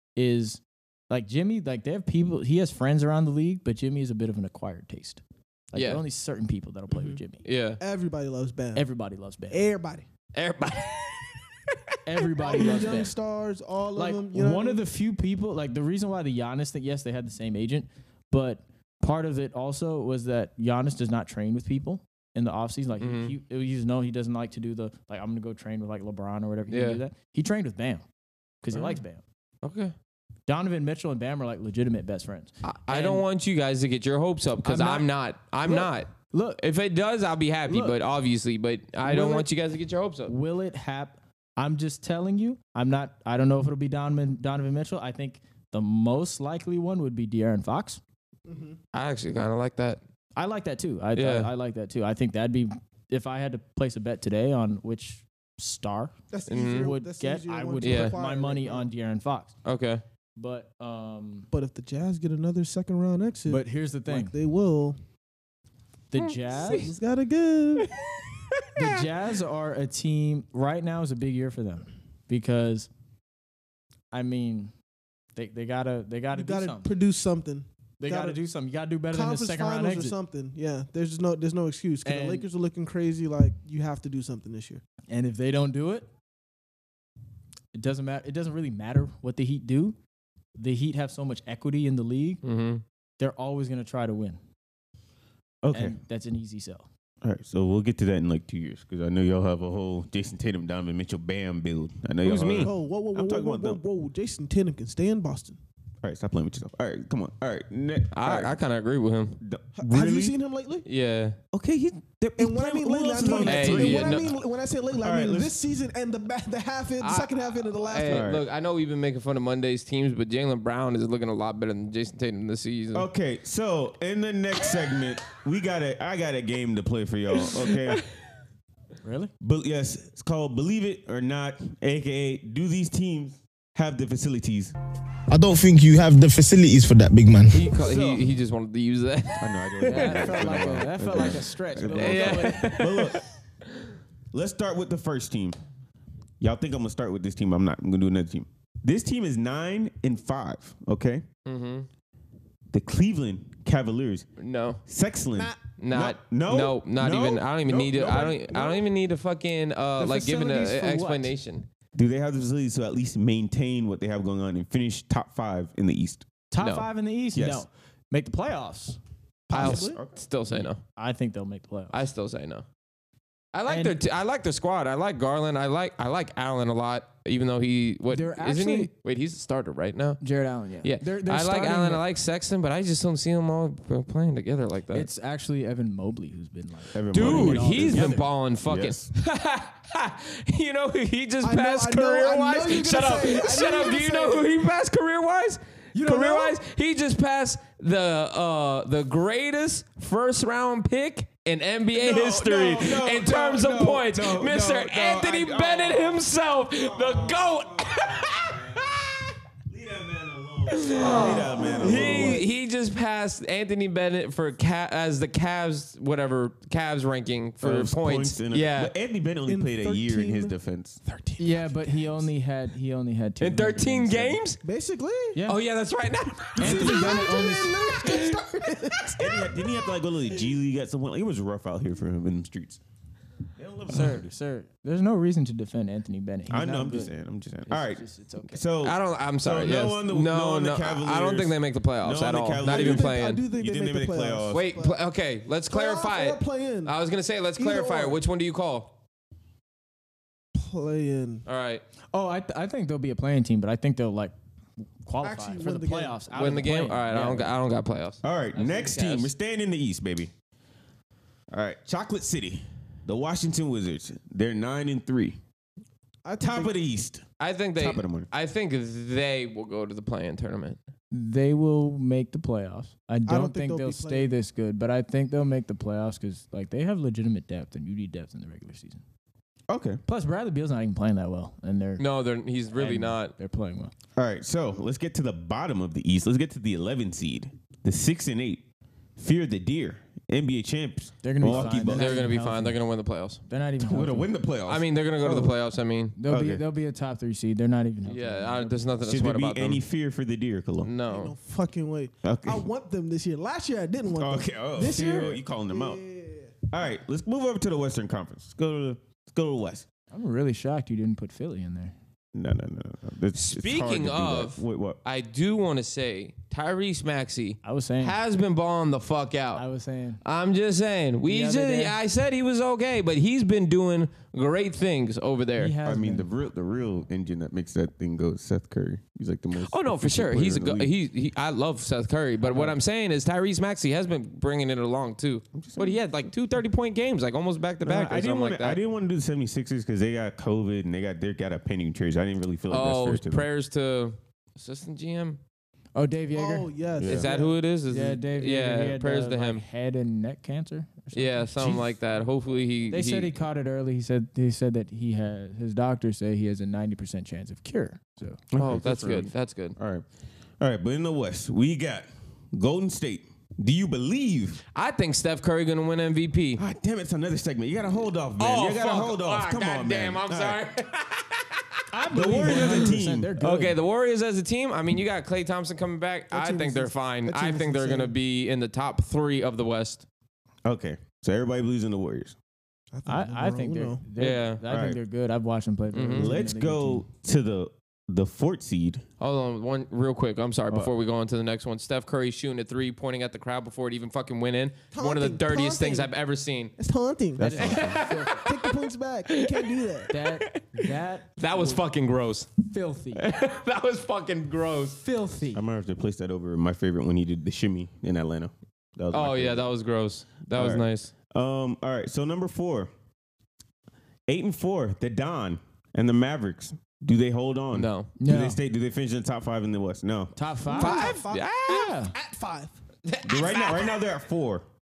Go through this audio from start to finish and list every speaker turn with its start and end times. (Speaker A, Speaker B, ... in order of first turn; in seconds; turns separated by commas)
Speaker A: 0.1-7.4, Speaker B: 5.7-6.0, Speaker C: 6.9-7.2, Speaker B: 7.4-7.8, Speaker C: 7.8-8.8, Speaker A: 8.7-9.6, Speaker C: 9.5-10.1, Speaker B: 10.3-11.7, Speaker A: 12.1-13.1, Speaker C: 12.4-14.8, Speaker B: 12.5-12.9, Speaker A: 13.9-28.0, Speaker B: 23.0-23.3, Speaker B: 26.7-27.0, Speaker A: 28.6-29.2, Speaker B: 28.7-29.0, Speaker B: 29.6-29.9, Speaker A: 30.5-33.2, Speaker B: 32.6-40.3, Speaker A: 34.6-35.1, Speaker A: 35.6-36.6, Speaker A: 37.7-38.0, Speaker A: 39.0-39.5, Speaker A: 40.3-48.0, Speaker C: 48.5-48.8, Speaker B: 48.9-50.0, Speaker A: 50.4-59.5, Speaker B: 51.1-51.5, Speaker C: 56.3-58.9, Speaker B: 56.5-56.9, Speaker B: 57.8-58.1, Speaker B: 59.6-60.0, Speaker A: 60.4-61.5, Speaker C: 61.5-65.0, Speaker A: 63.5-64.3, Speaker A: 66.1-66.9, Speaker B: 66.2-66.9, Speaker C: 66.6-67.9, Speaker B: 67.8-68.9, Speaker A: 68.7-72.9, Speaker A: 74.1-74.7, Speaker A: 75.3-76.9, Speaker C: 76.3-78.4, Speaker A: 78.0-80.1, Speaker C: 79.1-84.8, Speaker A: 82.0-82.5, Speaker A: 85.1-86.1, Speaker A: 87.7-90.0, Speaker A: 90.5-92.4, Speaker B: 92.4-92.8, Speaker A: 93.2-94.4, Speaker D: 95.6-96.0, Speaker A: 95.7-96.9, Speaker D: 97.2-103.8, Speaker B: 102.2-102.7, Speaker C: 102.6-105.6, Speaker D: 106.0-108.6, Speaker B: 108.1-109.4, Speaker D: 109.4-110.4, Speaker C: 109.8-110.8, Speaker B: 110.8-111.4, Speaker D: 111.5-114.4, Speaker C: 112.4-118.3, Speaker B: 113.2-114.3, Speaker D: 114.9-115.5, Speaker B: 117.0-123.1, Speaker D: 118.0-118.4, Speaker D: 122.9-128.0, Speaker A: 129.0-129.3, Speaker D: 129.4-134.7, Speaker E: 135.3-137.7, Speaker B: 137.5-140.4, Speaker D: 137.7-138.3, Speaker D: 139.4-143.2, Speaker A: 139.8-142.8, Speaker B: 141.9-143.2, Speaker D: 144.3-145.6, Speaker D: 146.4-151.2, Speaker B: 151.4-151.9, Speaker D: 152.7-154.3, Speaker B: 154.4-154.8, Speaker D: 154.8-158.8, Speaker B: 155.8-161.7, Speaker A: 160.0-161.3, Speaker D: 161.9-166.3, Speaker A: 166.5-169.0, Speaker B: 166.6-166.9, Speaker D: 167.3-167.6, Speaker C: 169.5-170.0, Speaker B: 169.5-170.8, Speaker D: 169.5-170.2, Speaker A: 170.9-172.0, Speaker B: 171.9-172.6, Speaker B: 173.5-180.2, Speaker A: 173.7-174.0, Speaker A: 178.1-178.9, Speaker A: 180.2-182.0, Speaker B: 180.8-185.1, Speaker A: 184.9-188.3, Speaker D: 186.9-189.1, Speaker B: 187.1-209.3, Speaker C: 191.4-194.5, Speaker A: 195.9-196.6, Speaker D: 201.9-209.0, Speaker D: 209.7-212.4, Speaker B: 210.7-218.9, Speaker C: 211.1-212.4, Speaker D: 217.6-221.0, Speaker C: 219.5-222.3, Speaker A: 221.4-224.4, Speaker B: 223.4-224.6, Speaker C: 224.6-225.4, Speaker A: 225.3-225.6, Speaker B: 225.5-228.4, Speaker A: 226.6-227.8, Speaker C: 226.6-229.6, Speaker D: 229.2-232.8, Speaker D: 233.6-234.3, Speaker A: 233.9-237.1, Speaker D: 236.5-244.6, Speaker A: 237.7-238.6, Speaker B: 238.8-243.4, Speaker C: 242.6-245.0, Speaker B: 244.5-248.9, Speaker C: 245.7-246.9, Speaker C: 247.6-248.2, Speaker C: 250.5-251.4, Speaker B: 251.4-251.8, Speaker A: 252.1-254.3, Speaker A: 255.0-257.5, Speaker C: 255.2-256.2, Speaker B: 256.3-259.3, Speaker D: 258.2-260.3, Speaker D: 261.5-265.4, Speaker C: 266.2-266.7, Speaker D: 266.4-267.2, Speaker B: 267.4-270.8, Speaker D: 267.8-268.3, Speaker A: 271.1-279.0, Speaker C: 273.3-274.3, Speaker D: 279.7-280.0, Speaker A: 280.1-282.1, Speaker B: 282.0-283.3, Speaker A: 282.7-283.9, Speaker D: 284.1-288.6, Speaker D: 289.2-292.2, Speaker A: 291.2-292.8, Speaker B: 291.4-293.4, Speaker A: 293.5-294.3, Speaker D: 293.8-295.5, Speaker B: 294.7-296.1, Speaker A: 296.1-298.8, Speaker D: 296.3-296.6, Speaker B: 298.0-299.8, Speaker D: 299.0-300.9, Speaker B: 300.8-301.3, Speaker C: 301.1-306.6, Speaker D: 302.2-302.7, Speaker D: 304.1-306.0, Speaker D: 306.7-309.9, Speaker A: 310.1-311.9, Speaker D: 312.3-315.0, Speaker B: 313.3-319.6, Speaker A: 317.6-318.1, Speaker A: 319.5-320.2, Speaker B: 320.2-325.7, Speaker A: 321.3-322.0, Speaker A: 325.6-326.3, Speaker D: 325.8-330.9, Speaker B: 329.6-338.8, Speaker A: 332.4-332.8, Speaker D: 335.5-336.0, Speaker D: 337.8-343.5, Speaker B: 342.7-345.4, Speaker A: 345.9-346.7, Speaker C: 346.3-347.6, Speaker D: 347.0-347.3, Speaker B: 347.0-349.6, Speaker A: 347.9-351.8, Speaker B: 351.1-353.3, Speaker A: 352.9-358.4, Speaker D: 358.5-360.1, Speaker B: 358.6-359.8, Speaker D: 360.6-364.6, Speaker B: 364.7-366.6, Speaker D: 366.6-370.6, Speaker B: 368.4-371.6, Speaker A: 371.9-373.8, Speaker D: 372.1-373.3, Speaker B: 372.5-372.9, Speaker B: 373.4-380.0, Speaker C: 376.3-378.1, Speaker D: 380.6-382.4, Speaker C: 382.9-384.0, Speaker A: 383.1-387.0, Speaker B: 384.2-384.6, Speaker D: 384.7-385.0, Speaker B: 385.9-386.3, Speaker D: 386.1-389.0, Speaker B: 389.2-396.7, Speaker C: 394.9-396.1, Speaker C: 396.8-400.1, Speaker D: 397.4-398.0, Speaker A: 397.4-398.5, Speaker B: 397.6-398.8, Speaker B: 399.3-402.5, Speaker A: 400.1-401.8, Speaker A: 402.7-403.3, Speaker B: 403.1-405.0, Speaker A: 405.0-405.6, Speaker D: 405.5-409.7, Speaker B: 409.1-411.1, Speaker D: 410.5-412.9, Speaker D: 414.3-420.3, Speaker B: 417.7-418.1, Speaker A: 418.2-418.6, Speaker A: 420.3-422.1, Speaker C: 420.6-422.8, Speaker B: 420.7-421.9, Speaker B: 423.1-424.0, Speaker D: 423.2-424.6